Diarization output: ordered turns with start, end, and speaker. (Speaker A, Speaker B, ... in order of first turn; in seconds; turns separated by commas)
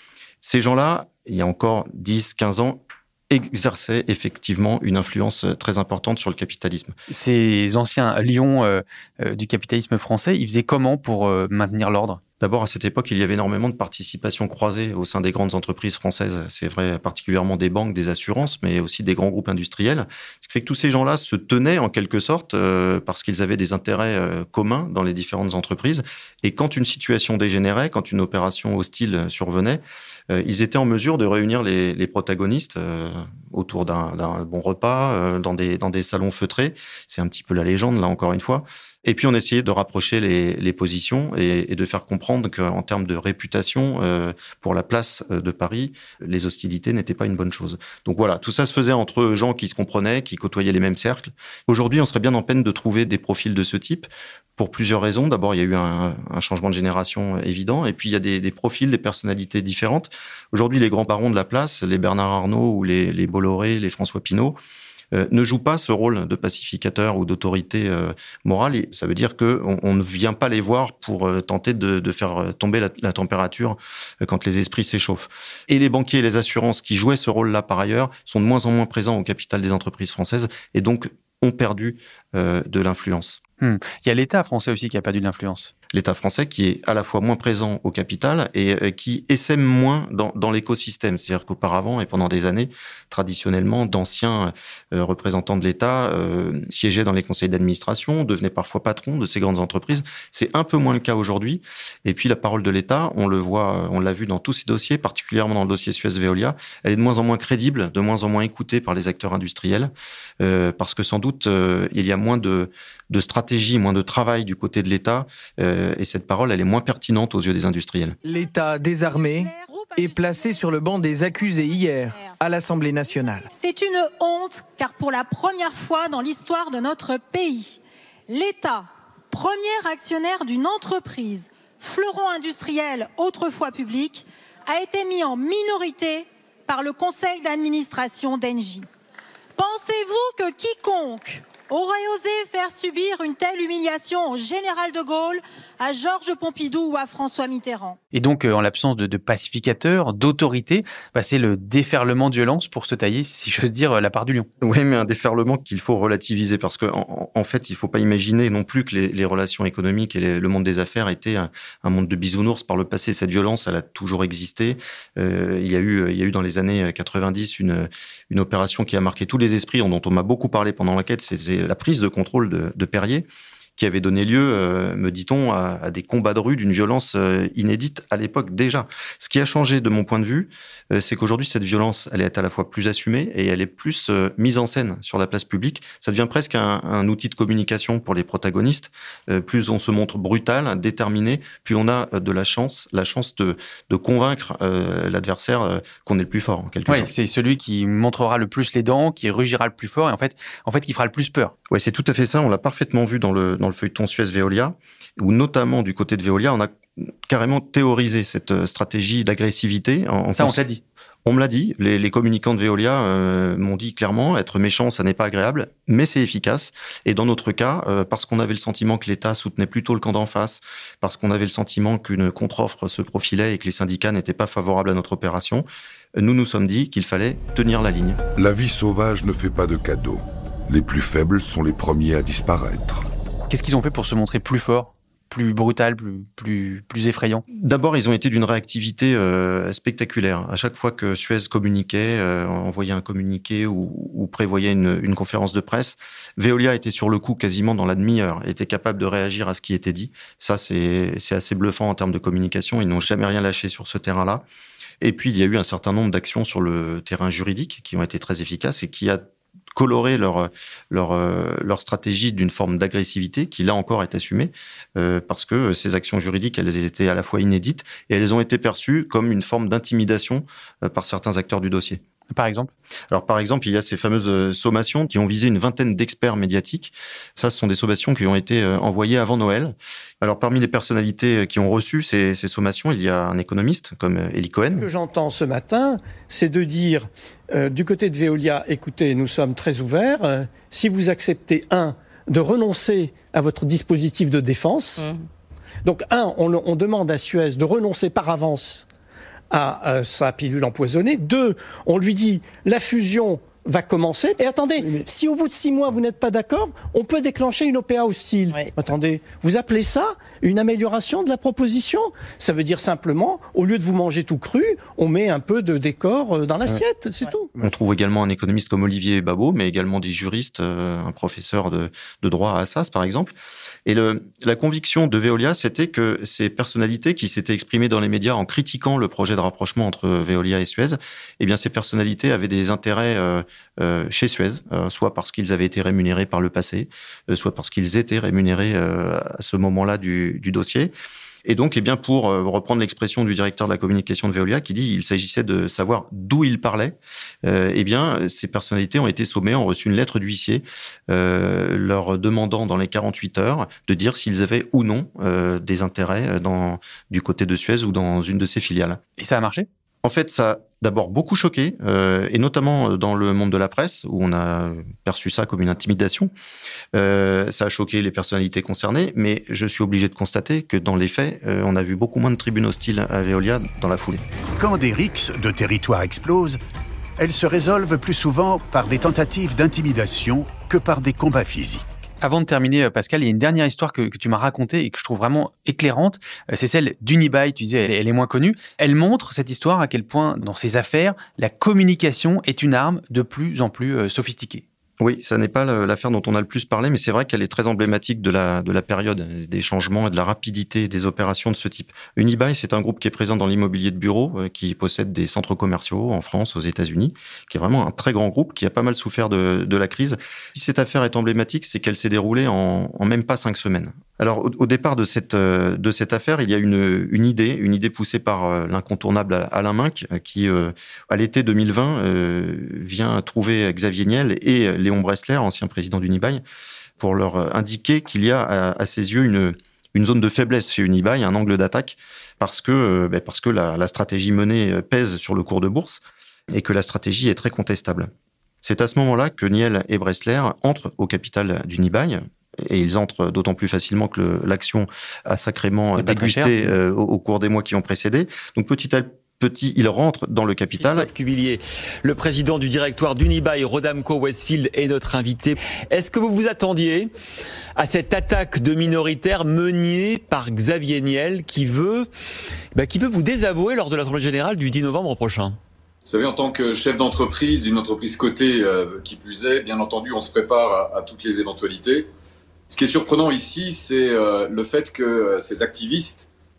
Speaker A: 0.4-7.0, Speaker B: 7.1-12.2, Speaker A: 12.4-64.6, Speaker A: 65.1-83.4, Speaker B: 83.6-85.7, Speaker A: 85.9-118.2, Speaker C: 118.2-123.5, Speaker D: 118.9-138.9, Speaker D: 139.6-148.0, Speaker B: 148.1-154.5, Speaker A: 154.6-197.1, Speaker B: 196.9-201.5, Speaker A: 201.7-206.7, Speaker A: 207.3-210.6, Speaker B: 210.3-210.8, Speaker A: 211.3-225.7, Speaker A: 226.2-228.2, Speaker E: 228.4-233.1, Speaker B: 233.5-237.4, Speaker A: 237.6-254.4, Speaker A: 255.0-259.2, Speaker A: 259.8-272.0, Speaker B: 272.3-272.7, Speaker A: 273.1-284.9, Speaker F: 284.8-295.1, Speaker F: 295.9-298.9, Speaker F: 299.5-317.7, Speaker A: 317.6-323.3, Speaker A: 323.9-340.9, Speaker A: 341.5-359.0, Speaker B: 359.2-359.7, Speaker A: 360.0-366.3, Speaker A: 366.9-374.2, Speaker G: 374.6-376.6, Speaker G: 377.2-381.9, Speaker B: 382.2-394.6, Speaker A: 395.0-426.4, Speaker A: 427.0-436.0, Speaker A: 436.5-438.1, Speaker A: 438.6-451.1, Speaker B: 445.9-446.7, Speaker H: 450.9-457.1, Speaker H: 457.8-462.1, Speaker H: 462.7-465.6, Speaker I: 466.1-472.0, Speaker I: 472.7-476.3